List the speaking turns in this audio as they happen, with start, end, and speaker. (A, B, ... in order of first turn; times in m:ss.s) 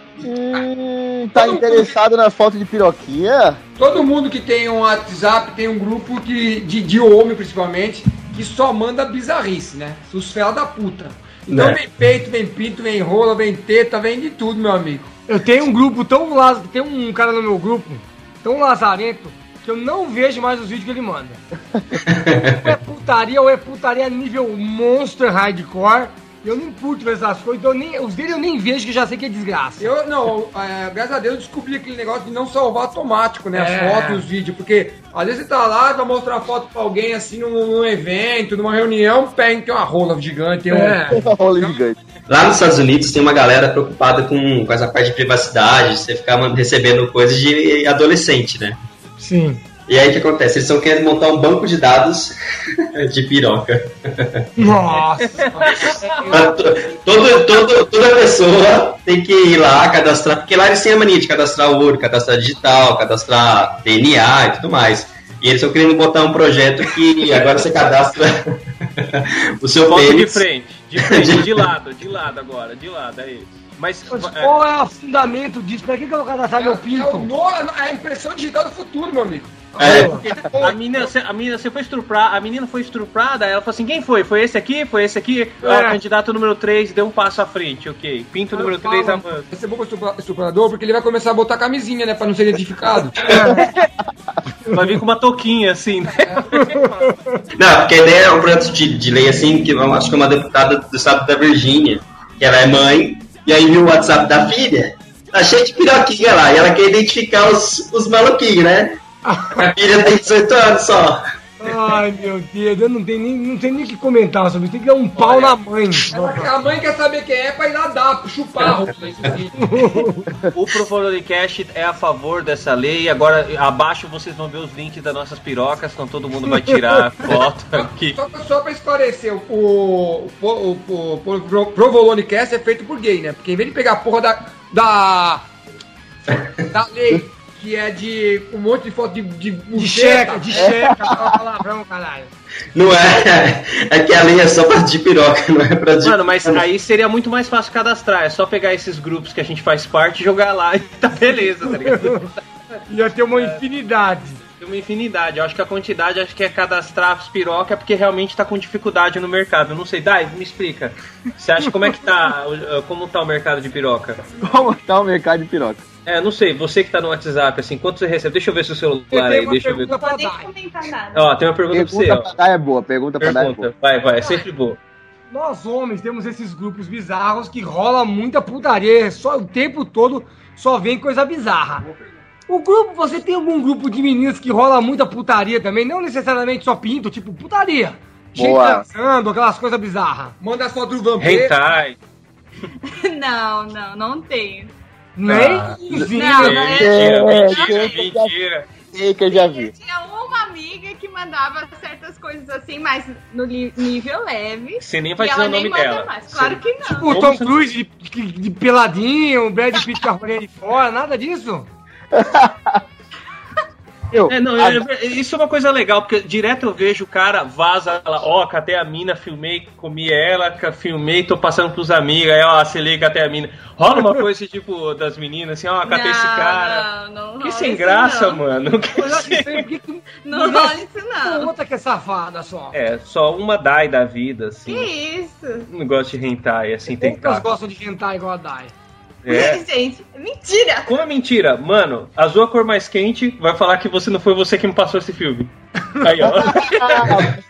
0:00.2-0:03.6 A
0:01.3-0:01.9 B
0:03.8-0:15.1 B
0:11.5-0:11.8 C
0:15.3-0:21.4 D
0:22.0-0:22.6 C
0:22.6-0:29.9 D
0:29.8-0:41.8 B
0:33.5-0:34.2 D
0:40.7-0:41.2 D
0:41.1-0:42.0 A
0:42.3-0:48.8 C
0:49.2-0:49.6 D
0:49.9-0:52.3 C
0:53.0-0:54.4 C
0:54.6-0:56.7 D
0:54.9-0:56.0 E
0:55.5-0:56.5 B
0:56.3-1:08.4 C
1:09.0-1:10.4 C
1:09.8-1:14.6 E
1:11.0-1:11.5 C
1:14.1-1:17.3 D
1:16.6-1:21.1 B
1:19.8-1:20.3 C
1:19.8-1:20.2 D
1:20.3-1:29.5 E
1:25.6-1:26.0 D
1:28.5-1:33.1 B
1:33.2-1:33.7 D
1:34.7-1:37.1 E
1:36.2-1:36.5 B
1:36.5-1:37.2 D
1:37.6-1:49.0 C
1:49.3-1:49.5 D
1:49.5-1:51.2 C
1:51.6-1:56.5 D
1:55.1-1:55.6 E
1:56.1-2:00.0 B
1:59.6-2:00.3 D
2:00.5-2:08.2 E
2:06.5-2:06.8 D
2:07.7-2:15.5 B
2:16.7-2:20.7 B
2:19.8-2:22.3 D
2:20.5-2:21.2 A
2:22.7-2:26.6 C
2:26.0-2:32.4 E
2:31.8-2:32.2 D
2:32.9-2:34.4 D
2:33.3-2:33.6 E
2:34.6-2:44.2 E
2:44.4-2:45.8 A
2:46.0-2:50.0 E
2:49.1-2:50.5 D
2:49.8-2:51.3 F
2:51.1-2:52.3 E
2:51.7-2:53.7 A
2:53.2-2:54.8 E
2:55.3-3:01.8 D
3:01.8-3:02.2 B
3:02.5-3:10.3 D
3:08.4-3:08.8 A
3:10.4-3:11.5 B
3:11.2-3:12.0 E
3:12.8-3:14.7 F
3:15.2-3:16.6 D
3:15.2-3:18.7 E
3:16.1-3:18.1 F
3:16.7-3:18.3 A
3:18.9-3:19.7 A
3:19.3-3:27.1 F
3:24.8-3:27.6 E
3:26.9-3:31.7 D
3:32.1-3:32.8 A
3:34.1-3:34.8 A
3:34.3-3:46.8 E
3:45.8-3:48.4 F
3:47.4-3:49.7 E
3:48.9-3:52.7 D
3:50.2-3:51.5 F
3:52.7-3:54.9 E
3:54.6-3:55.7 F
3:55.7-3:57.5 E
3:57.0-3:58.7 D
3:59.2-3:59.6 E
3:59.3-4:00.9 F
4:00.8-4:07.3 E
4:06.4-4:07.4 A